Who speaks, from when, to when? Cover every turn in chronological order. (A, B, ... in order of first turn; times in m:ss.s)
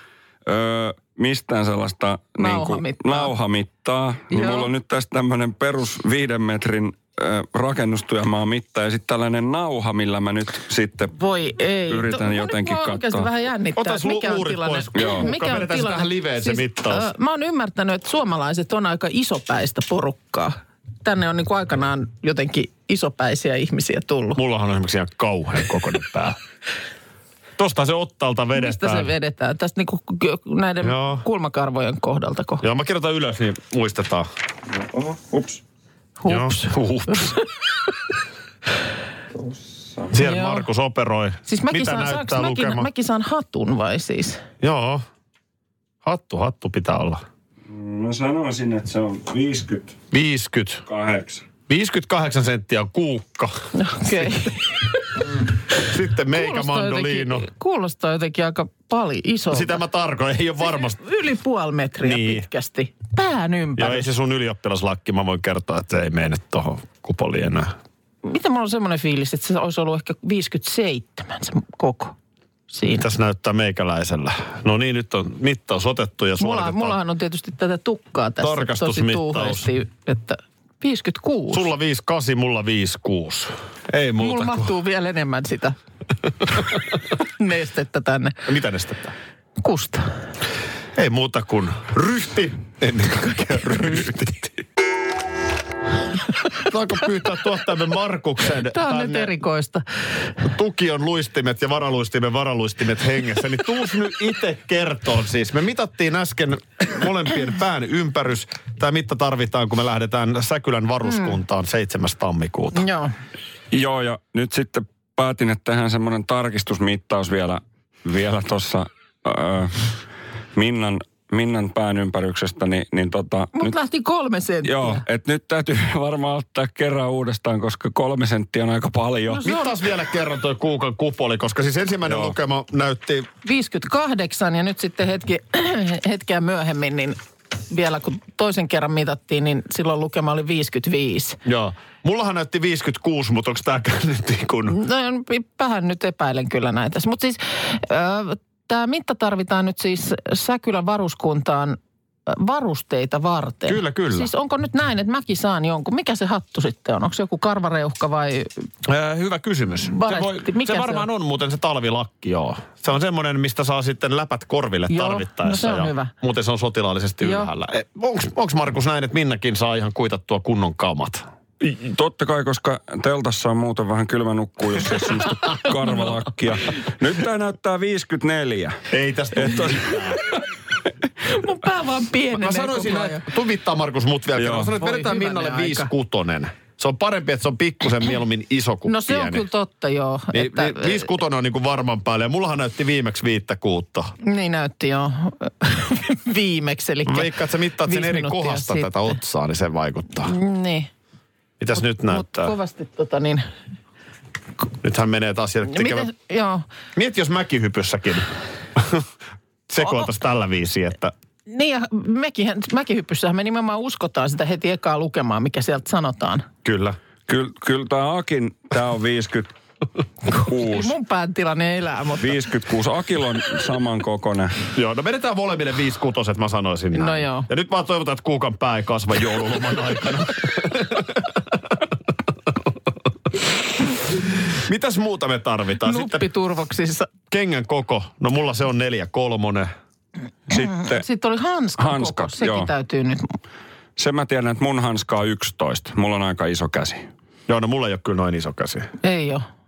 0:00.5-0:11.2 A
0:02.4-0:03.3 B
0:04.3-0:04.7 B
0:11.1-0:24.4 B
0:11.9-0:13.3 A
0:13.8-0:17.1 C
0:15.0-0:15.3 A
0:24.4-0:26.4 C
0:27.6-0:29.1 C
0:28.5-0:32.6 B
0:30.8-0:31.2 C
0:32.6-0:34.3 C
0:34.7-0:35.6 A
0:36.2-0:37.4 B
0:36.3-0:37.4 C
0:39.4-0:40.2 A
0:40.1-0:42.9 C
0:40.2-0:40.6 B
0:41.5-0:44.4 B
0:44.6-0:45.0 C
0:46.0-0:47.2 C
0:47.7-0:50.0 A
0:50.1-0:50.9 C
0:50.9-0:51.5 A
0:51.7-0:54.4 C
0:53.8-0:54.9 B
0:55.8-0:57.5 C
0:56.3-0:59.8 B
0:59.5-1:01.0 C
1:00.7-1:04.1 B
1:02.0-1:02.5 C
1:03.8-1:07.7 C
1:08.2-1:12.2 B
1:12.7-1:13.1 B
1:12.9-1:17.0 C
1:16.4-1:21.7 B
1:18.4-1:19.7 C
1:21.5-1:24.7 C
1:24.2-1:25.8 B
1:27.2-1:28.4 B
1:28.5-1:29.2 C
1:29.6-1:30.1 B
1:31.0-1:34.6 C
1:36.6-1:39.3 C
1:38.7-1:39.8 B
1:40.4-1:52.9 C
1:51.0-1:51.4 B
1:52.8-1:53.1 B
1:53.7-2:00.0 A
2:00.6-2:03.8 A
2:03.6-2:05.0 B
2:04.6-2:09.5 A
2:09.3-2:09.8 B
2:09.4-2:13.3 C
2:12.0-2:12.3 A
2:13.4-2:17.2 B
2:17.7-2:21.4 B
2:21.4-2:24.8 C
2:24.7-2:38.6 B
2:33.7-2:34.3 C
2:38.8-2:51.3 C
2:39.8-2:41.1 B
2:44.9-2:46.1 B
2:47.2-2:47.5 B
2:51.6-2:58.8 A
2:58.9-3:00.2 C
2:59.4-2:59.8 A
3:01.2-3:03.3 B
3:02.3-3:09.5 C
3:04.4-3:04.7 A
3:04.7-3:05.9 B
3:08.9-3:11.2 B
3:10.3-3:14.1 C
3:14.2-3:19.2 B
3:17.0-3:20.3 C
3:20.3-3:20.9 B
3:21.6-3:22.5 C
3:21.8-3:23.5 B
3:24.8-3:26.1 C
3:25.6-3:26.7 B
3:27.0-3:29.1 C
3:29.7-3:31.1 C
3:31.5-3:36.5 B
3:36.6-3:37.0 C
3:37.3-3:39.5 A
3:40.3-3:40.9 A
3:40.3-3:42.4 B
3:42.2-3:44.6 A
3:44.7-3:51.4 C
3:46.9-3:47.5 B
3:54.5-3:56.3 C
3:55.8-3:57.1 B
3:57.3-3:59.7 C
4:00.5-4:03.4 B
4:00.5-4:01.0 A
4:01.8-4:02.7 A
4:04.0-4:07.1 A
4:07.5-4:08.9 C
4:09.0-4:09.5 B